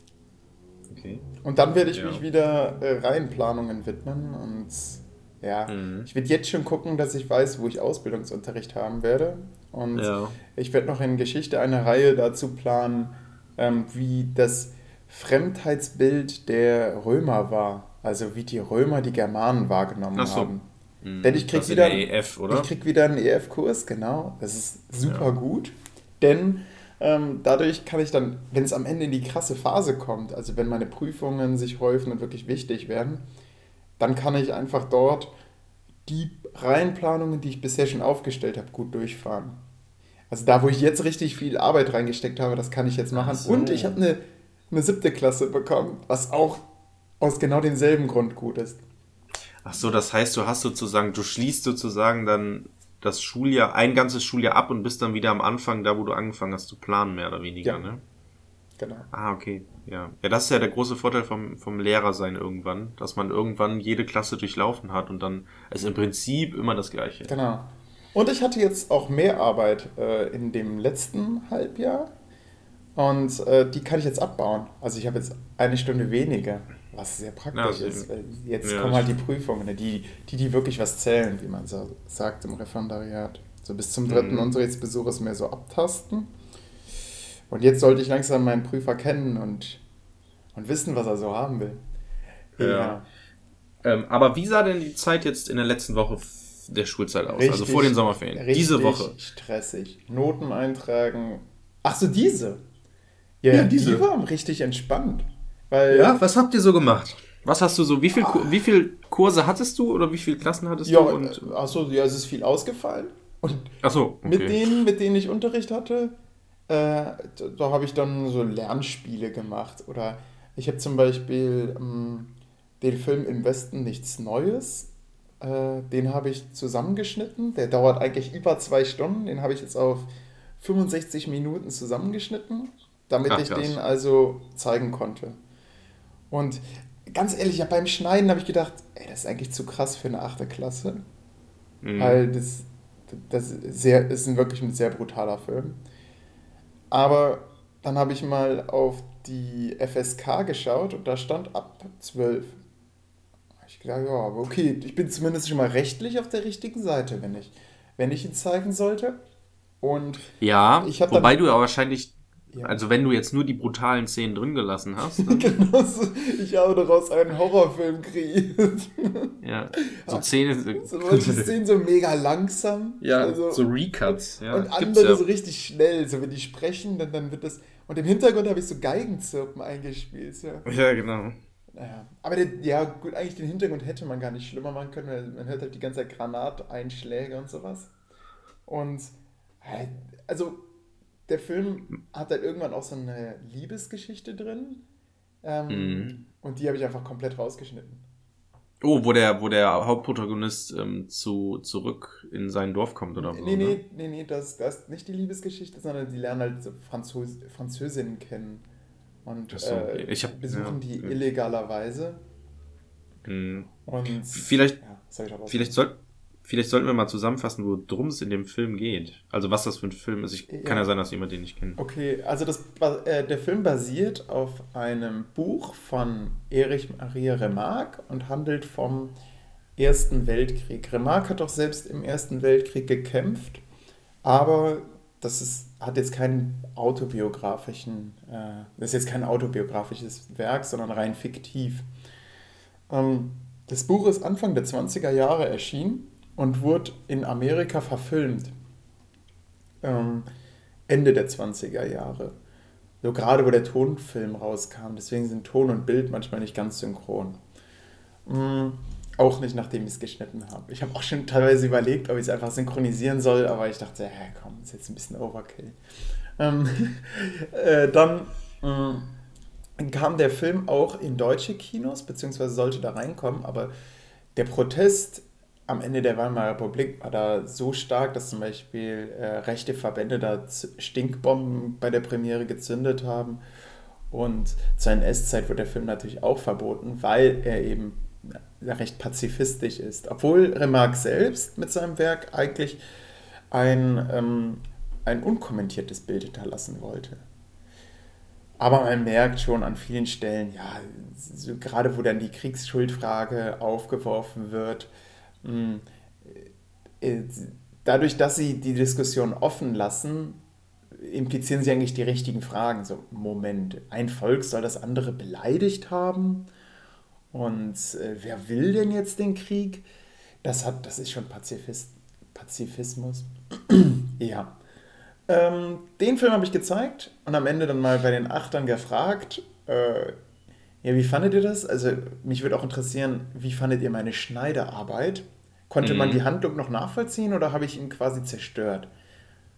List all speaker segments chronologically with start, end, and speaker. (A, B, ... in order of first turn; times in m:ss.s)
0:00.9-0:01.3 A
0:01.4-0:20.7 B
0:01.9-0:02.2 A
0:05.7-0:06.1 A
0:09.9-0:10.4 A
0:20.1-0:20.5 A
0:21.0-0:22.7 A
0:21.2-0:33.2 B
0:25.0-0:25.3 A
0:34.0-0:35.3 B
0:36.0-0:39.6 B
0:40.3-0:46.6 B
0:43.1-0:44.0 A
0:47.2-0:48.8 B
0:49.6-0:58.0 A
0:58.8-0:59.1 B
0:59.1-1:07.3 A
1:07.3-1:12.1 B
1:12.9-1:26.3 B
1:17.5-1:18.1 A
1:18.6-1:19.2 A
1:24.1-1:24.5 A
1:27.5-1:29.8 B
1:30.5-1:31.8 B
1:32.6-1:33.0 A
1:32.6-1:33.0 B
1:33.8-1:39.1 A
1:37.3-1:42.6 B
1:43.4-1:46.2 B
1:43.5-1:44.0 A
1:45.9-1:51.5 A
1:48.2-1:48.6 B
1:50.8-1:53.7 B
1:53.8-1:54.8 A
1:54.2-1:56.2 B
1:56.7-2:15.4 B
2:13.3-2:13.8 A
2:16.3-2:21.0 B
2:21.8-2:22.2 A
2:22.0-2:25.8 B
2:26.9-2:32.6 B
2:33.6-2:39.2 B
2:39.8-2:41.4 B
2:40.4-2:45.5 A
2:42.5-2:42.8 B
2:45.2-2:49.4 B
2:49.4-2:51.5 A
2:49.9-3:00.7 B
2:53.0-2:55.2 A
3:00.6-3:01.4 A
3:01.7-3:07.9 B
3:08.6-3:10.7 B
3:11.3-3:14.8 B
3:15.4-3:18.0 B
3:15.7-3:16.2 A
3:18.8-3:23.8 A
3:23.2-3:28.6 B
3:29.2-3:32.2 B
3:29.5-3:31.2 A
3:33.2-3:33.7 A
3:33.8-3:35.8 B
3:34.3-3:34.8 A
3:35.5-3:41.8 A
3:40.5-3:40.9 B
3:41.8-3:49.2 B
3:49.8-3:53.6 B
3:54.2-4:01.9 B
4:02.9-4:08.5 B
4:09.8-4:10.3 B
4:10.9-4:12.4 B
4:13.0-4:17.4 B
4:18.2-4:25.8 B
4:26.4-4:29.2 B
4:29.8-4:33.7 B
4:34.3-4:43.4 B
4:44.1-4:52.8 B
4:53.5-4:57.2 B
4:58.6-5:04.9 B
5:05.4-5:06.5 B
5:07.0-5:10.4 B
5:10.9-5:16.5 B
5:17.3-5:19.9 B
5:20.4-5:24.6 B
5:25.3-5:30.2 B
5:30.8-5:38.9 B
5:35.8-5:36.2 A